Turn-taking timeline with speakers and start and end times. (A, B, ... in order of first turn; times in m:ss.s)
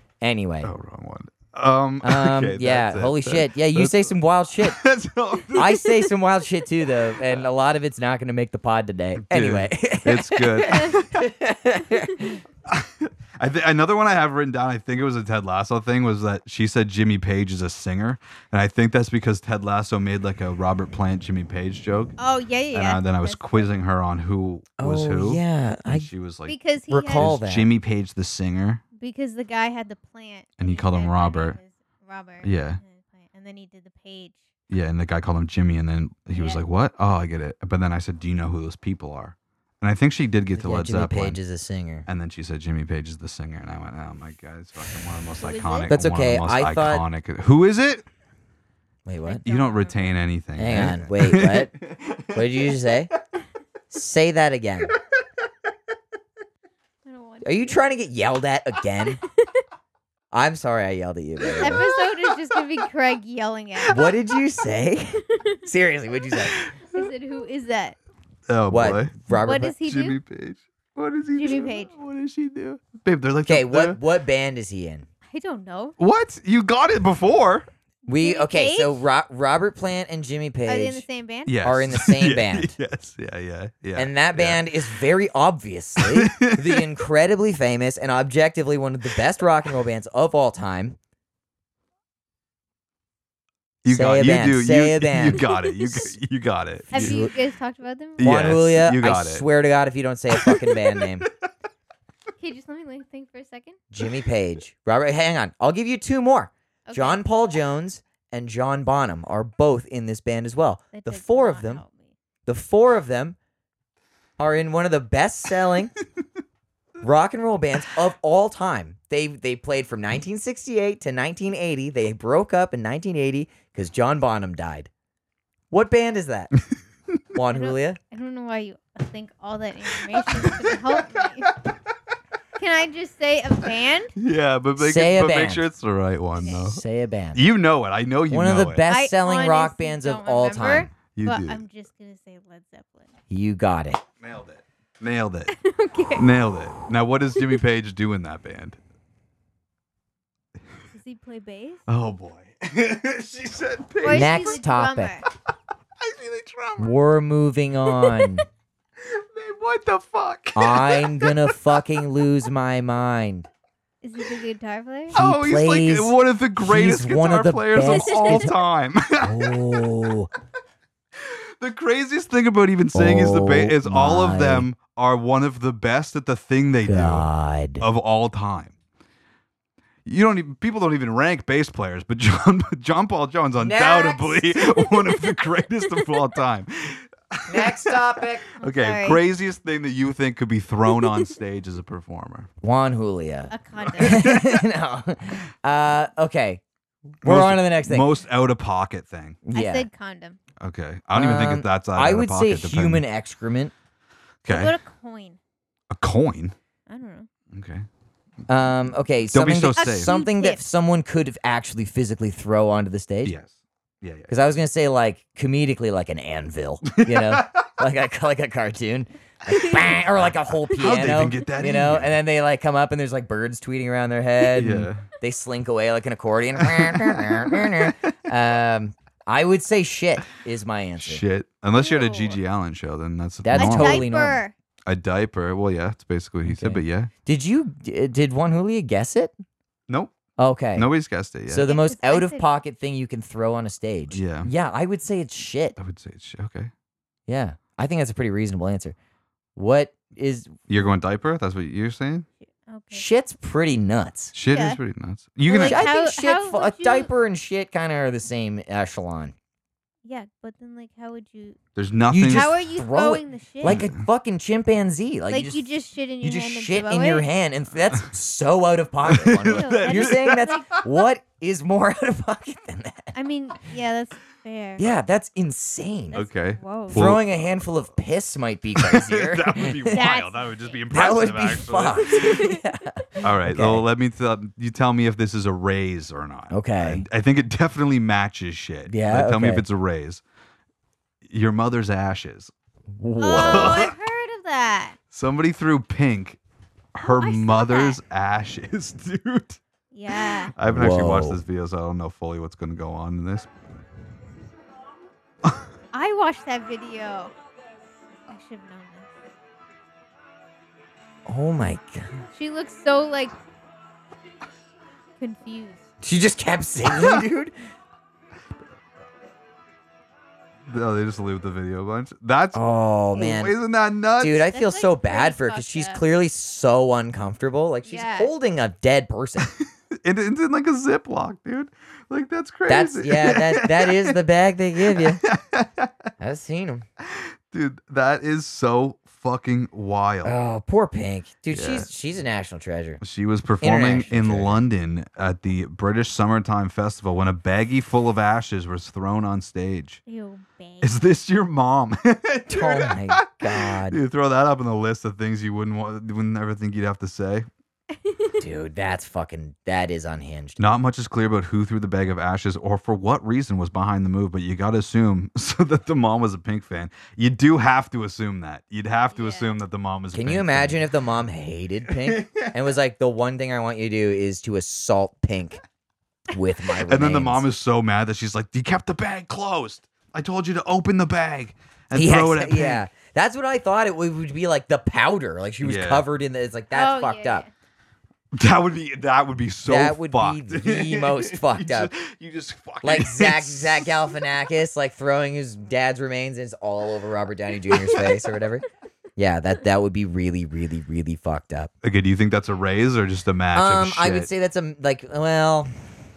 0:00.2-0:00.7 A
0:00.6-0:05.9 B
0:02.0-0:04.8 A
0:05.5-0:12.4 A
0:07.1-0:07.4 B
0:09.2-0:11.3 B
0:10.6-0:11.0 C
0:12.7-0:22.1 B
0:22.2-0:23.7 C
0:22.7-0:28.8 B
0:24.8-0:26.1 A
0:26.5-0:27.3 C
0:26.9-0:27.7 A
0:29.0-0:34.4 C
0:30.6-0:31.6 B
0:32.4-0:32.8 B
0:34.7-0:41.4 B
0:36.3-0:36.6 C
0:40.6-0:42.1 A
0:42.0-0:48.0 B
0:45.4-0:45.9 C
0:45.9-0:47.0 A
0:49.0-0:49.4 A
0:49.2-0:50.2 C
0:49.4-0:52.8 B
0:50.6-0:51.7 A
0:52.3-0:53.1 A
0:53.9-0:54.9 A
0:57.0-0:57.8 C
0:57.4-0:59.2 A
1:00.3-1:01.8 A
1:01.4-1:02.1 B
1:01.6-1:04.1 C
1:03.9-1:06.6 A
1:06.5-1:07.0 B
1:06.9-1:08.0 C
1:08.5-1:09.2 B
1:08.7-1:09.7 A
1:09.4-1:10.2 C
1:09.8-1:14.0 B
1:11.4-1:11.9 C
1:13.4-1:15.1 A
1:15.3-1:16.0 C
1:16.0-1:17.7 B
1:18.1-1:21.0 A
1:18.1-1:19.0 C
1:20.7-1:21.6 C
1:21.4-1:24.8 B
1:21.6-1:22.7 A
1:24.0-1:31.0 A
1:26.0-1:26.8 B
1:33.8-1:37.3 B
1:33.9-1:35.4 A
1:35.4-1:36.0 C
1:36.9-1:37.3 A
1:36.9-1:38.7 C
1:38.2-1:39.4 B
1:38.2-1:41.3 A
1:40.3-1:41.0 B
1:42.4-1:43.8 C
1:43.9-1:51.8 A
1:46.9-1:47.2 C
1:50.9-1:52.1 C
1:52.4-1:53.4 A
1:54.4-1:55.9 A
1:57.0-2:04.9 A
2:05.7-2:06.5 A
2:07.3-2:08.0 A
2:07.5-2:11.6 C
2:10.1-2:11.3 B
2:12.6-2:14.1 C
2:14.2-2:16.8 B
2:14.8-2:15.7 A
2:16.4-2:16.6 C
2:16.4-2:17.4 A
2:17.3-2:18.8 B
2:18.3-2:20.9 A
2:18.9-2:23.1 C
2:21.1-2:21.6 B
2:23.3-2:24.0 A
2:24.2-2:25.5 B
2:25.5-2:26.3 C
2:26.2-2:28.8 B
2:30.9-2:31.8 C
2:31.9-2:34.6 B
2:34.0-2:35.2 C
2:34.1-2:35.2 A
2:36.0-2:36.9 B
2:36.8-2:38.4 A
2:39.0-2:41.5 B
2:40.5-2:43.5 A
2:44.0-2:45.2 C
2:45.1-2:49.6 B
2:45.1-2:48.5 A
2:47.8-2:48.4 C
2:49.2-2:50.3 A
2:51.2-2:57.2 B
2:52.9-2:54.7 A
2:56.8-2:57.8 A
2:57.8-2:58.7 B
3:00.0-3:08.0 B
3:03.6-3:04.6 A
3:07.5-3:08.4 A
3:08.6-3:12.5 B
3:08.6-3:09.2 C
3:12.6-3:16.6 A
3:13.5-3:14.3 C
3:13.8-3:14.6 B
3:17.2-3:18.1 A
3:17.2-3:19.4 B
3:19.4-3:19.9 A
3:19.5-3:20.4 C
3:20.6-3:23.0 B
3:21.1-3:23.7 A
3:24.4-3:24.7 B
3:24.5-3:25.4 C
3:25.9-3:26.5 B
3:26.9-3:27.3 C
3:27.5-3:27.9 B
3:28.5-3:33.3 A
3:29.3-3:30.1 B
3:29.8-3:30.6 C
3:33.2-3:34.3 B
3:34.3-3:51.2 A
3:36.9-3:37.6 B
3:40.2-3:42.2 B
3:44.5-3:45.1 B
3:46.6-3:48.1 B
3:51.0-3:54.1 B
3:51.8-3:52.4 C
3:53.4-3:54.4 A
3:53.6-3:54.5 C
3:54.8-3:57.1 B
3:56.4-3:59.3 A
3:59.9-4:00.1 B
4:00.4-4:00.9 A
4:00.7-4:01.6 B
4:01.5-4:05.8 A
4:01.6-4:02.4 C
4:04.1-4:04.5 B
4:05.8-4:06.7 B
4:07.3-4:08.9 A
4:09.6-4:10.5 A
4:10.7-4:12.3 B
4:12.6-4:13.0 C
4:12.9-4:14.3 A
4:14.3-4:15.9 B
4:14.5-4:14.8 C
4:15.5-4:17.1 C
4:15.5-4:19.3 A
4:20.0-4:21.6 C
4:21.8-4:22.5 B
4:22.1-4:25.6 A
4:22.3-4:23.8 C
4:23.6-4:24.0 B
4:25.3-4:27.2 C
4:26.2-4:33.1 A
4:29.0-4:30.6 B
4:29.4-4:30.9 C
4:33.1-4:34.8 C
4:34.8-4:36.2 A
4:36.1-4:37.1 C
4:36.1-4:37.8 B
4:36.9-4:40.1 A
4:38.7-4:42.4 B
4:39.9-4:40.6 C
4:40.9-4:43.8 A
4:42.1-4:42.6 C
4:43.2-4:50.2 B
4:46.5-4:47.0 A
4:48.9-4:49.6 A
4:51.2-4:52.5 B
4:52.9-4:53.8 A
4:53.2-4:55.0 C
4:53.4-4:53.9 B
4:55.1-4:56.4 B
4:56.9-4:59.6 B
4:57.0-4:58.0 C
4:59.9-5:00.5 C
5:00.1-5:03.5 B
5:00.7-5:01.4 A
5:05.9-5:07.3 C
5:08.3-5:09.3 C
5:11.3-5:12.2 A
5:12.3-5:13.4 C
5:15.2-5:15.8 C
5:16.0-5:17.5 A
5:16.9-5:17.2 B
5:20.7-5:22.6 B
5:22.5-5:23.5 A
5:23.1-5:24.4 B
5:24.2-5:29.5 A
5:24.5-5:26.0 C
5:27.8-5:28.3 C
5:29.5-5:34.2 B
5:32.7-5:35.2 A
5:34.8-5:35.9 B
5:36.2-5:36.8 A
5:37.0-5:40.3 B
5:40.2-5:43.0 A
5:41.5-5:41.9 B
5:43.0-5:50.0 B
5:43.6-5:44.6 A
5:50.1-5:51.0 C
5:50.8-5:57.5 B
5:52.5-5:54.0 A
5:58.0-5:58.4 C
5:58.4-6:00.6 A
6:00.6-6:10.8 B
6:09.1-6:09.6 C
6:10.1-6:15.6 A
6:11.9-6:12.5 B
6:16.3-6:17.4 A
6:16.8-6:22.8 B
6:21.9-6:27.4 A
6:25.6-6:26.0 B
6:26.7-6:27.5 C
6:28.3-6:34.1 B
6:29.6-6:31.9 A
6:32.8-6:38.6 A
6:37.7-6:38.2 B
6:39.2-6:41.7 A
6:41.8-6:44.3 B
6:43.5-6:45.7 A